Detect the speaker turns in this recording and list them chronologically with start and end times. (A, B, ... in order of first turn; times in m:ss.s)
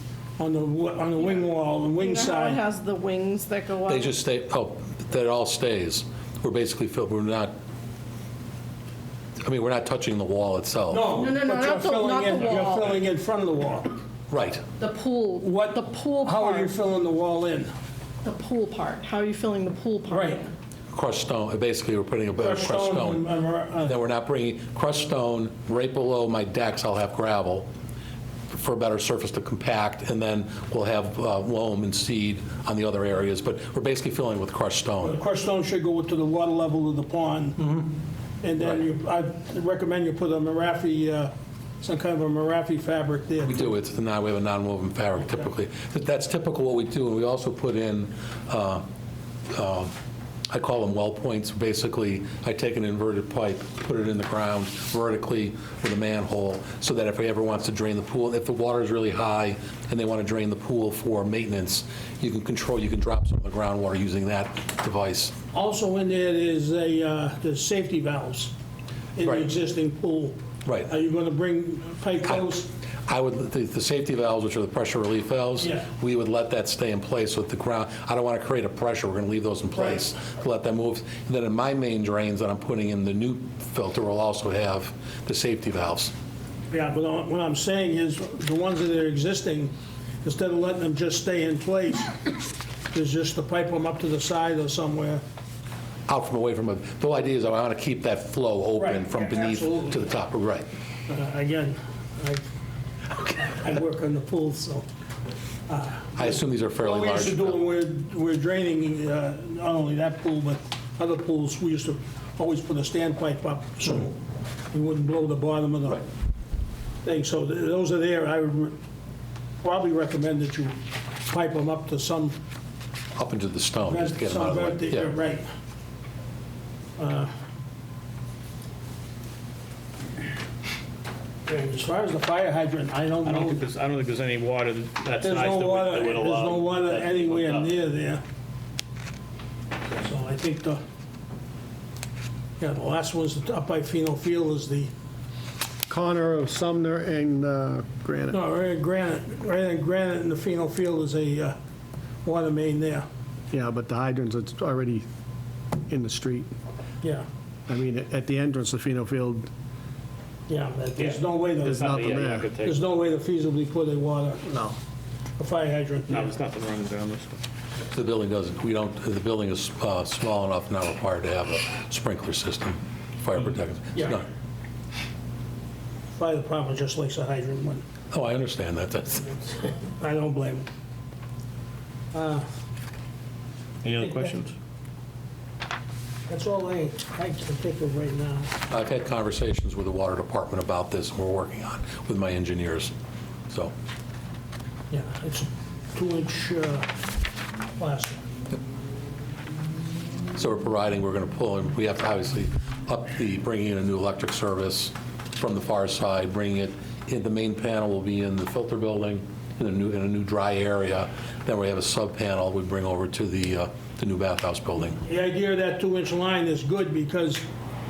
0:00.4-0:02.6 A
0:02.0-0:04.1 B
0:03.9-0:07.5 C
0:09.4-0:11.1 C
0:10.9-0:14.0 A
0:11.1-0:12.9 B
0:14.3-0:14.6 C
0:14.8-0:16.7 B
0:15.4-0:17.7 A
0:18.2-0:20.5 B
0:20.1-0:20.4 A
0:20.9-0:23.2 C
0:22.4-0:23.9 A
0:23.8-0:27.7 C
0:28.5-0:35.2 C
0:35.0-0:37.6 A
0:37.6-0:37.9 C
0:38.4-0:43.7 A
0:43.4-0:48.8 C
0:49.5-0:49.9 C
0:50.5-1:05.3 C
1:05.5-1:08.5 A
1:09.1-1:10.4 A
1:09.2-1:09.5 C
1:10.6-1:10.9 C
1:10.9-1:12.7 A
1:13.1-1:26.1 C
1:19.7-1:20.0 A
1:26.7-1:32.2 A
1:32.9-1:35.2 A
1:36.1-1:40.6 C
1:38.8-1:40.2 A
1:41.1-1:42.5 A
1:43.3-1:44.8 A
1:45.7-1:54.2 A
1:46.2-1:47.6 C
1:54.7-1:56.0 A
1:57.0-1:58.8 A
1:59.6-2:00.7 A
2:01.3-2:02.4 A
2:03.2-2:05.1 C
2:03.8-2:05.5 A
2:07.0-2:07.3 A
2:11.4-2:13.6 A
2:13.2-2:17.7 D
2:15.2-2:18.2 A
2:19.9-2:20.8 A
2:22.6-2:24.9 A
2:25.9-2:28.4 E
2:28.3-2:31.6 A
2:32.2-2:33.1 A
2:33.5-2:35.0 E
2:35.9-2:36.5 E
2:37.7-2:39.5 E
2:40.5-2:44.5 A
2:41.0-2:42.8 D
2:41.6-2:42.5 E
2:44.5-2:44.7 E
2:45.4-2:46.3 A
2:46.1-2:47.4 D
2:47.9-2:54.2 C
2:53.9-2:54.2 A
2:56.1-2:57.8 A
2:58.1-2:59.4 C
2:59.8-3:00.7 A
3:02.1-3:02.4 A
3:03.8-3:04.5 D
3:04.0-3:04.4 A
3:06.3-3:08.5 A
3:08.7-3:12.9 C
3:14.9-3:16.9 A
3:17.8-3:18.2 A
3:20.3-3:35.0 C
3:35.0-3:37.4 A